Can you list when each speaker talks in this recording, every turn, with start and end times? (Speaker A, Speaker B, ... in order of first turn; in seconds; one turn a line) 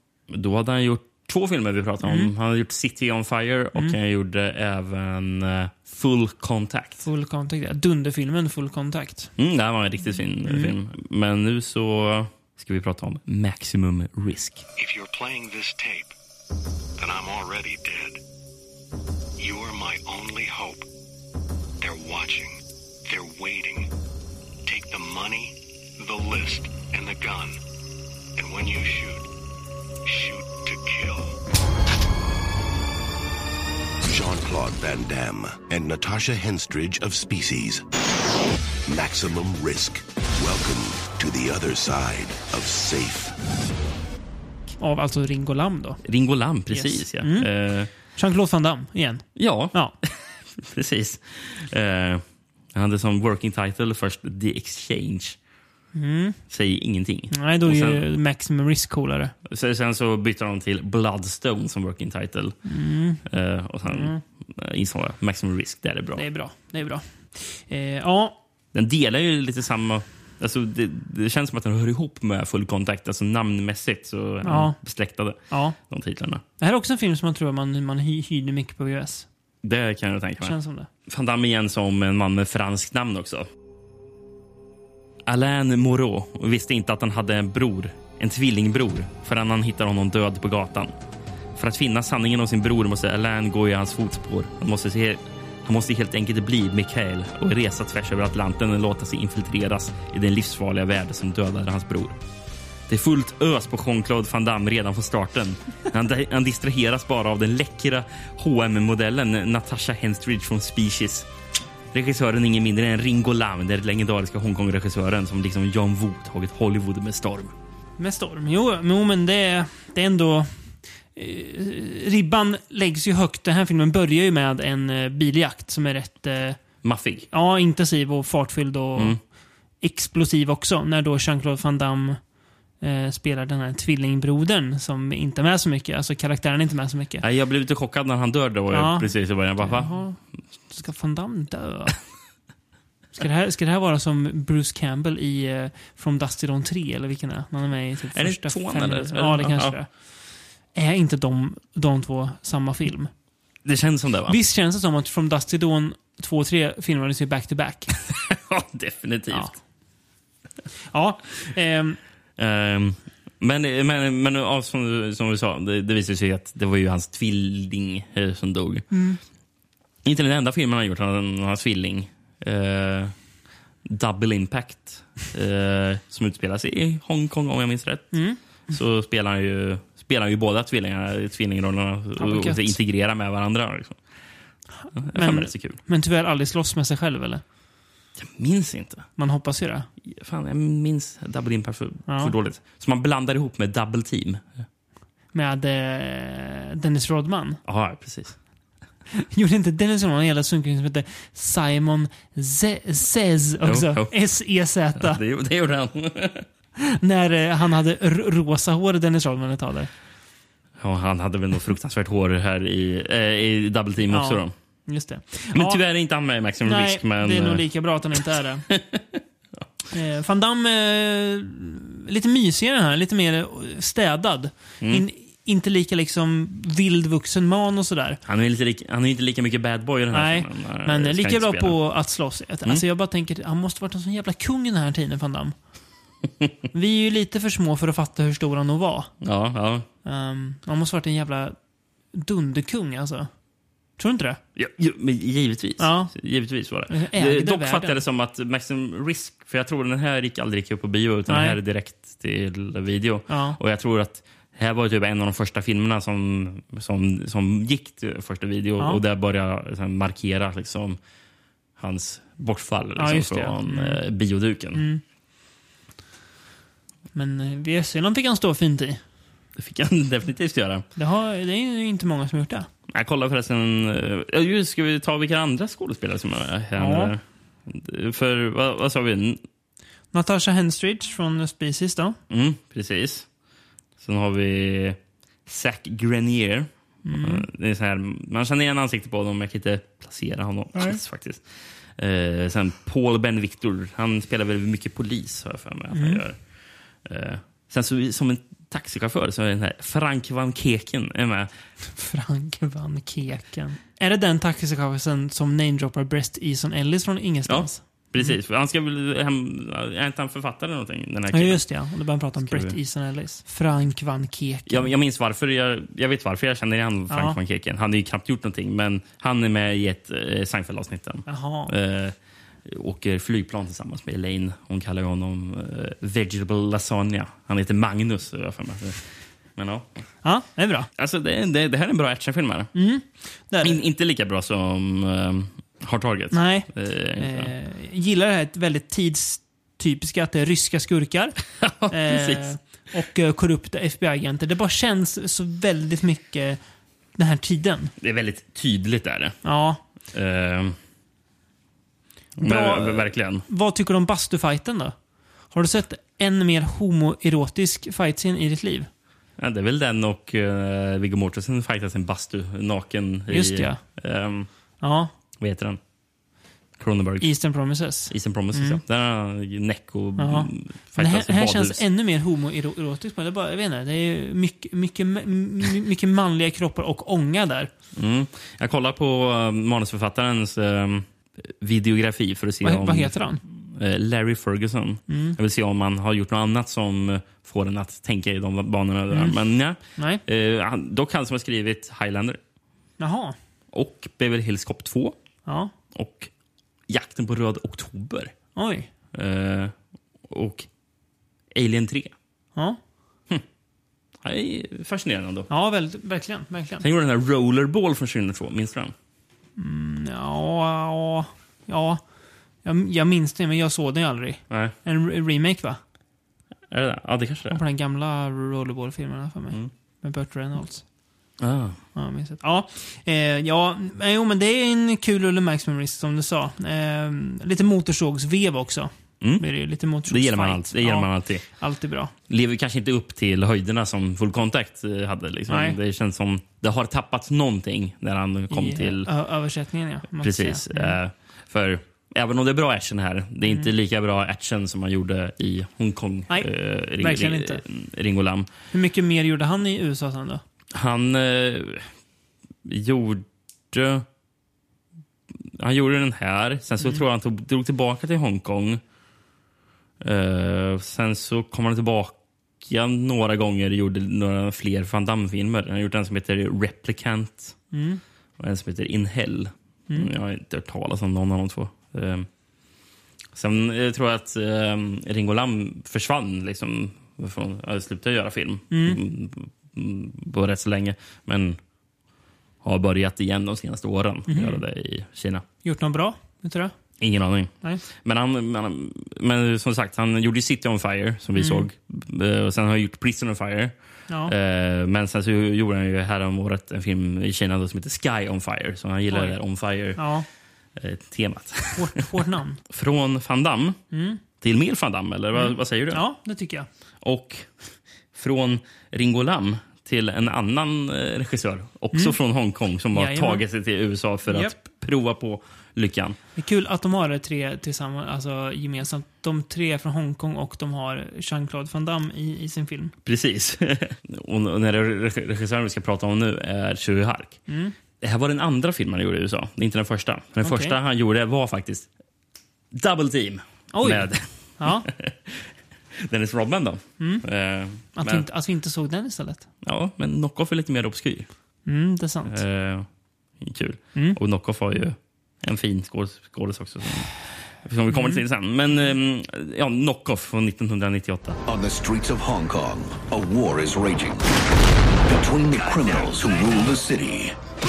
Speaker A: 0.3-7.0
Speaker B: 2.0-2.3
Speaker B: 7.0-9.3
Speaker A: 9.4-14.7
Speaker B: 10.5-10.7
Speaker C: 14.8-16.1
Speaker C: 17.0-18.0
Speaker C: 19.4-20.8
Speaker C: 21.8-22.5
Speaker C: 23.1-23.8
Speaker C: 24.7-27.6
Speaker C: 28.4-29.2
Speaker C: 30.1-31.2
Speaker D: 34.1-37.8
Speaker D: 38.9-43.3
Speaker B: 44.8-46.0
Speaker A: 46.0-47.9
Speaker B: 46.7-47.5
Speaker B: 48.2-49.9
Speaker A: 49.4-52.2
Speaker A: 52.7-55.4
Speaker B: 56.0-56.4
Speaker A: 56.5-58.0
Speaker B: 57.3-59.3
Speaker A: 59.5-62.6
Speaker B: 62.7-63.2
Speaker A: 63.2-66.2
Speaker B: 63.9-64.2
Speaker B: 66.2-68.4
Speaker A: 68.7-75.4
Speaker B: 74.4-74.8
Speaker B: 75.5-75.8
Speaker A: 75.9-76.4
Speaker B: 76.6-79.3
Speaker A: 79.6-80.6
Speaker B: 80.4-80.9
Speaker A: 81.1-83.5
Speaker A: 85.3-90.9
Speaker A: 91.6-102.2
Speaker A: 102.9-111.3
Speaker A: 111.9-117.5
Speaker B: 118.0-120.5
Speaker B: 121.2-126.6
Speaker A: 126.8-127.3
Speaker B: 127.3-129.2
Speaker B: 129.8-132.2
Speaker B: 132.8-137.2
Speaker A: 137.2-140.0
Speaker B: 138.7-140.2
Speaker B: 140.7-142.0
Speaker B: 143.2-149.9
Speaker A: 148.2-149.8
Speaker B: 150.8-153.1
Speaker A: 153.7-154.4
Speaker B: 154.3-157.9
Speaker A: 158.1-159.6
Speaker B: 160.9-162.0
Speaker A: 162.4-168.9
Speaker B: 168.9-169.2
Speaker A: 170.0-173.1
Speaker A: 173.9-184.0
Speaker B: 178.1-178.4
Speaker B: 182.2-182.8
Speaker B: 184.8-187.4
Speaker A: 185.0-185.8
Speaker A: 188.2-189.1
Speaker B: 189.2-189.9
Speaker A: 190.1-194.6
Speaker B: 192.1-192.3
Speaker B: 195.3-197.6
Speaker A: 197.7-198.4
Speaker B: 199.2-205.2
Speaker A: 203.6-204.2
Speaker A: 205.0-206.5
Speaker B: 206.8-209.9
Speaker A: 210.8-214.5
Speaker B: 214.1-215.8
Speaker A: 215.5-217.7
Speaker B: 216.7-218.7
Speaker A: 218.7-219.2
Speaker B: 219.9-228.2
Speaker A: 228.3-231.8
Speaker B: 230.1-235.6
Speaker B: 236.7-239.1
Speaker A: 239.2-239.9
Speaker B: 240.1-241.6
Speaker B: 242.1-243.3
Speaker B: 244.0-244.4
Speaker A: 244.6-261.0
Speaker B: 245.8-246.1
Speaker B: 246.9-248.0
Speaker B: 251.3-251.6
Speaker B: 253.3-253.6
Speaker A: 261.8-264.8
Speaker B: 263.0-264.0
Speaker B: 264.7-265.0
Speaker B: 267.1-269.0
Speaker A: 269.6-270.9
Speaker B: 271.0-272.7
Speaker A: 272.9-279.4
Speaker B: 276.8-277.1
Speaker B: 280.1-282.2
Speaker A: 282.3-283.3
Speaker A: 284.0-291.4
Speaker B: 287.1-287.5
Speaker A: 292.0-296.4
Speaker B: 295.9-296.2
Speaker A: 297.1-301.5
Speaker B: 301.9-308.4
Speaker A: 307.5-311.7
Speaker B: 311.3-314.9
Speaker A: 312.4-312.8
Speaker A: 314.7-322.1
Speaker B: 317.1-317.4
Speaker B: 321.3-321.7
Speaker A: 322.7-329.0
Speaker A: 329.6-329.9
Speaker B: 330.2-330.9
Speaker A: 331.0-332.7
Speaker B: 332.8-333.8
Speaker A: 333.6-337.5
Speaker B: 336.3-346.6
Speaker A: 341.6-342.5
Speaker B: 347.2-347.9
Speaker A: 348.0-349.4
Speaker B: 349.4-349.8
Speaker A: 350.1-350.8
Speaker A: 352.4-353.4
Speaker B: 352.4-354.9
Speaker B: 355.5-358.9
Speaker A: 359.4-364.5
Speaker B: 363.3-363.8
Speaker B: 364.8-365.1
Speaker A: 365.4-365.8
Speaker A: 366.8-367.3
Speaker B: 367.2-368.8
Speaker A: 368.1-371.8
Speaker B: 370.2-377.7
Speaker A: 378.0-392.4
Speaker B: 382.6-383.4
Speaker B: 385.1-385.4
Speaker B: 390.0-390.2
Speaker B: 393.0-393.4
Speaker A: 393.7-395.2
Speaker B: 395.5-395.7
Speaker A: 395.9-396.3
Speaker A: 396.9-398.3
Speaker B: 398.6-398.9
Speaker A: 399.1-399.7
Speaker A: 400.3-400.7
Speaker A: 401.5-402.1
Speaker A: 404.2-405.5
Speaker B: 405.5-406.8
Speaker A: 406.8-408.9
Speaker B: 409.6-412.0
Speaker B: 412.6-415.8
Speaker A: 416.7-417.6
Speaker B: 417.5-420.8
Speaker A: 421.4-421.8
Speaker B: 422.0-432.1
Speaker A: 430.1-431.4
Speaker A: 432.3-439.1
Speaker B: 435.5-435.8
Speaker B: 438.5-441.0
Speaker A: 440.2-448.5
Speaker B: 447.0-447.6
Speaker B: 448.7-450.4
Speaker A: 450.7-451.9
Speaker A: 452.7-454.1
Speaker A: 455.6-458.8
Speaker A: 460.0-467.6
Speaker B: 467.7-468.0
Speaker A: 468.4-472.3
Speaker A: 473.4-481.6
Speaker B: 478.7-479.0
Speaker A: 482.6-485.4
Speaker B: 484.3-484.6
Speaker B: 485.6-486.7
Speaker A: 487.0-493.7
Speaker B: 491.4-491.6
Speaker A: 494.3-500.0
Speaker B: 499.1-499.4
Speaker B: 500.0-500.3
Speaker A: 500.8-502.1
Speaker B: 501.8-502.6
Speaker A: 502.7-503.8
Speaker B: 503.9-504.2
Speaker A: 504.4-506.0
Speaker B: 505.4-506.7
Speaker A: 507.0-507.5
Speaker A: 508.1-516.2
Speaker B: 512.9-513.4
Speaker B: 514.3-514.5
Speaker B: 516.4-522.9
Speaker A: 523.0-527.4
Speaker B: 527.5-527.7
Speaker A: 528.0-531.9
Speaker B: 530.4-530.8
Speaker A: 532.7-535.5
Speaker B: 533.7-534.9
Speaker A: 536.0-538.2
Speaker B: 538.0-539.5
Speaker A: 539.6-541.3
Speaker B: 541.7-542.4
Speaker A: 542.3-542.9
Speaker A: 543.4-551.4
Speaker B: 547.9-548.2
Speaker E: 551.5-554.3
Speaker E: 555.1-557.4